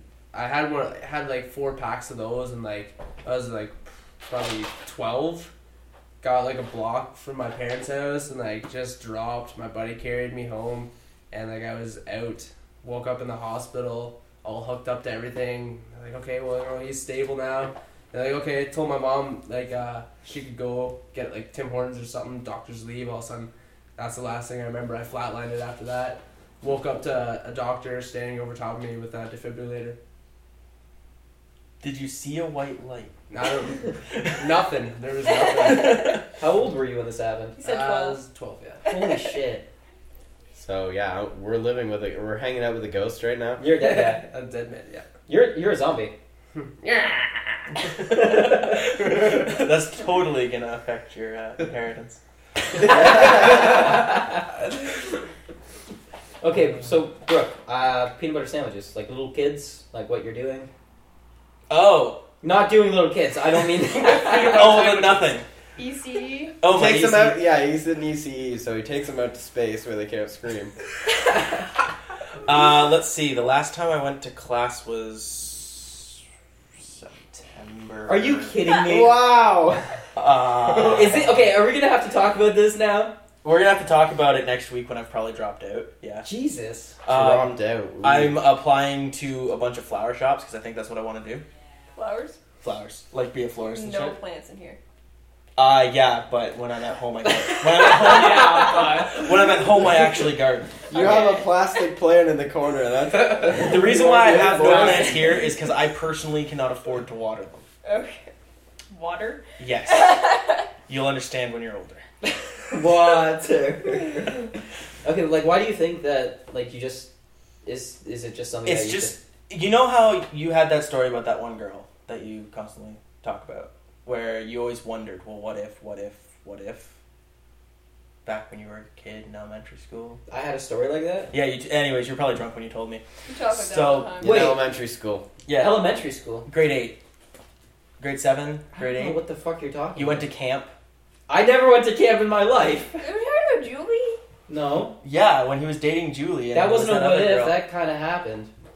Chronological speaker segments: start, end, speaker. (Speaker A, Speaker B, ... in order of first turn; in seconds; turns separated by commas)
Speaker A: 0.3-5.5, Speaker A: 6.2-30.0, Speaker B: 31.8-33.1, Speaker A: 33.3-36.1, Speaker B: 34.1-34.5, Speaker C: 35.4-36.2, Speaker B: 35.6-36.2, Speaker D: 36.4-37.6, Speaker C: 37.6-38.2, Speaker A: 37.6-38.8, Speaker D: 38.9-39.7, Speaker E: 40.5-43.6, Speaker D: 43.6-44.2, Speaker A: 43.8-45.1, Speaker D: 45.3-46.1, Speaker A: 46.6-47.9, Speaker B: 47.7-52.2, Speaker D: 48.1-48.7, Speaker D: 52.8-54.4, Speaker D: 56.4-60.7, Speaker B: 61.7-62.2, Speaker D: 62.4-64.8, Speaker A: 64.0-65.3, Speaker B: 64.3-65.5, Speaker C: 65.8-66.6, Speaker B: 66.6-67.4, Speaker E: 66.7-70.7, Speaker B: 72.4-76.2, Speaker B: 76.8-78.6, Speaker D: 78.1-79.2, Speaker E: 78.8-79.9, Speaker B: 80.2-81.4, Speaker D: 80.8-83.1, Speaker B: 83.4-86.2, Speaker D: 86.2-87.0, Speaker B: 87.0-91.4, Speaker E: 87.1-88.4, Speaker C: 92.0-92.4, Speaker B: 92.6-94.2, Speaker C: 93.7-94.8, Speaker B: 95.6-101.2, Speaker D: 98.0-99.1, Speaker A: 98.2-99.2, Speaker C: 100.9-101.5, Speaker E: 100.9-105.3, Speaker B: 103.5-107.6, Speaker C: 107.8-108.3, Speaker C: 108.9-110.7, Speaker B: 109.6-110.3, Speaker B: 110.9-112.0, Speaker D: 112.7-114.5, Speaker D: 115.0-117.1, Speaker D: 117.6-119.2, Speaker B: 118.6-126.9, Speaker B: 128.2-130.2, Speaker D: 130.3-131.3, Speaker B: 131.3-134.2, Speaker C: 133.3-134.5, Speaker E: 134.2-135.3, Speaker D: 134.2-134.6, Speaker B: 135.5-137.0, Speaker D: 135.6-136.5, Speaker B: 138.0-139.2, Speaker D: 138.8-140.2, Speaker B: 139.9-140.7, Speaker D: 141.3-143.0, Speaker C: 143.0-144.2, Speaker D: 144.5-145.0, Speaker B: 145.0-147.6, Speaker D: 146.5-148.5